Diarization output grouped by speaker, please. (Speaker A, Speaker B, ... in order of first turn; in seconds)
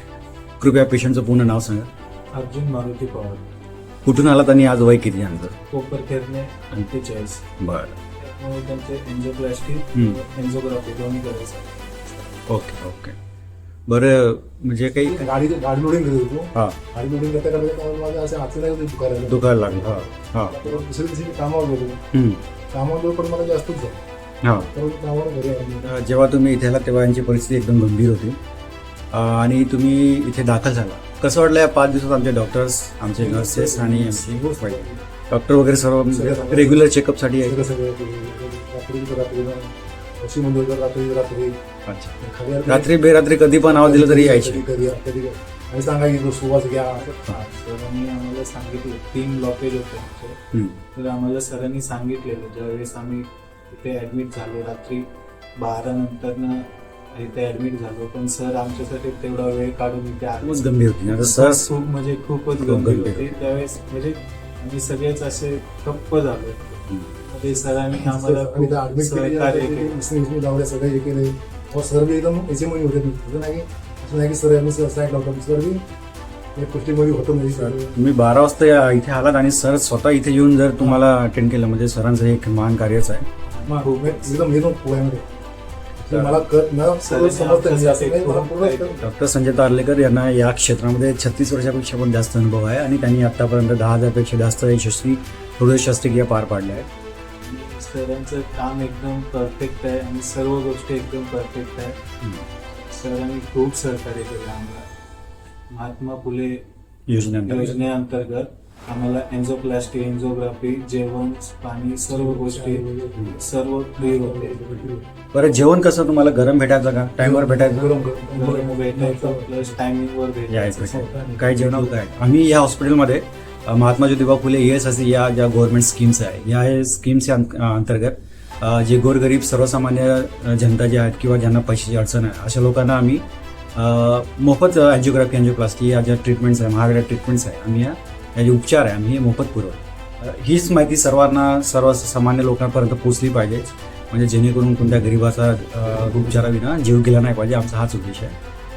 Speaker A: 0.6-1.9, 4.0-5.5, 7.6-8.0, 12.5-13.2, 13.9-15.3, 19.3-20.6, 22.1-22.4, 24.4-24.7, 25.8-28.4, 29.1-37.6, 41.9-42.1, 42.7-44.6, 50.5-50.8, 60.4-61.7, 62.6-63.3, 66.9-67.1, 77.5-83.2, 86.0-86.4, 89.0-96.9, 102.2-102.5, 107.1-107.8, 115.3-117.9, 120.5-133.2, 133.8-148.3
Speaker B: 2.3-3.5, 5.7-7.4, 8.2-12.4, 47.0-50.4, 50.9-70.0, 83.4-84.5, 87.0-89.0, 97.4-102.0, 102.9-104.9, 105.7-106.6, 107.3-114.7, 118.3-121.9
Speaker C: 14.9-22.0, 22.7-24.0, 24.7-25.9, 33.1-35.0, 36.1-36.9, 37.4-41.5, 42.2-43.0, 43.6-47.1, 67.9-75.8, 76.5-78.0, 83.7-85.2, 86.1-89.0, 112.1-113.3, 114.0-115.0, 117.2-119.8, 121.0-121.5